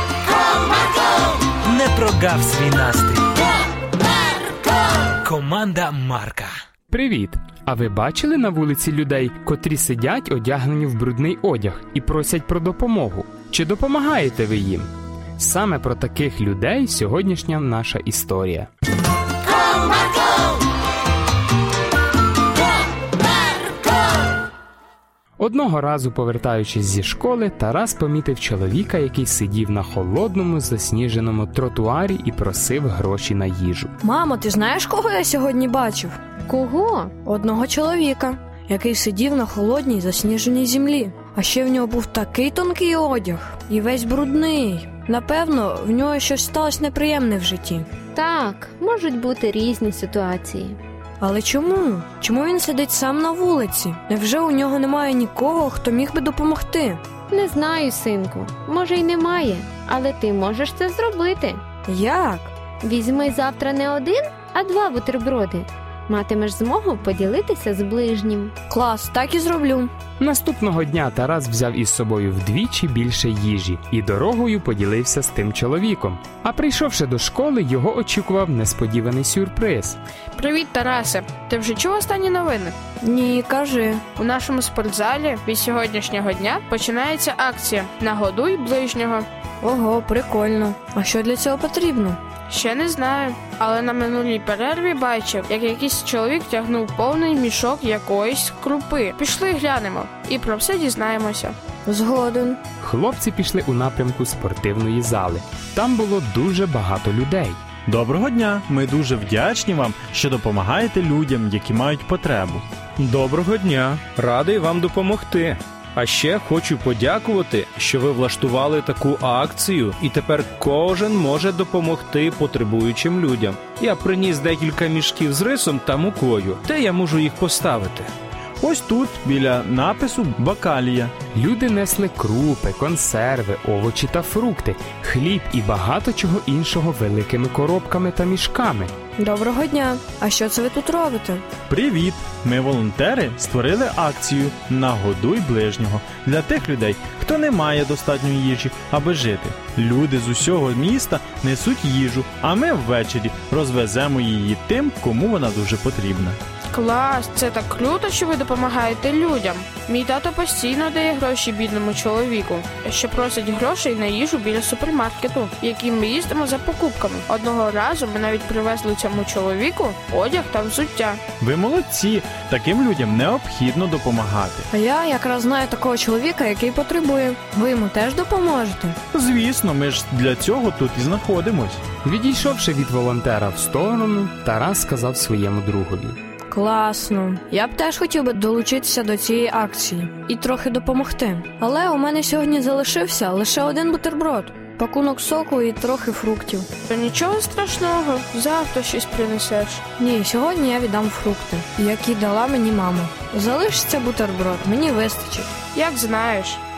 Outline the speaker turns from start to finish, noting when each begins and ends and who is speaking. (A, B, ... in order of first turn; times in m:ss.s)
0:01.7-0:03.2 A
0:05.2-0:06.5 A
0:06.9-0:18.7 B
0:25.4-0:33.9 B
0:34.0-0:36.2 C
0:36.5-0:37.1 D
0:37.2-0:47.9 C
0:48.1-0:50.8 D
0:51.2-0:57.0 C
0:57.3-1:01.6 D
1:01.8-1:02.5 C
1:02.8-1:08.5 D
1:08.7-1:09.9 C
1:10.2-1:20.0 B
1:20.4-1:22.8 E
1:23.0-1:24.0 C
1:24.2-1:29.2 E
1:29.6-1:32.2 C
1:32.5-1:41.6 E
1:41.8-1:42.6 C
1:42.8-1:47.6 B
1:47.9-1:52.6 F
1:53.0-2:08.1 G
2:08.6-2:11.1 F
2:11.3-2:18.9 B
2:19.2-2:21.4 C
2:21.7-2:36.4 F
2:36.7-2:51.2 E
2:51.4-2:54.7 F
2:54.7-2:59.0 C
2:59.1-3:01.8 F
3:02.0-3:06.2 B
3:06.5-3:16.7 C
3:16.9-3:19.8 E
3:20.0-3:25.6 C
3:25.7-3:26.6 E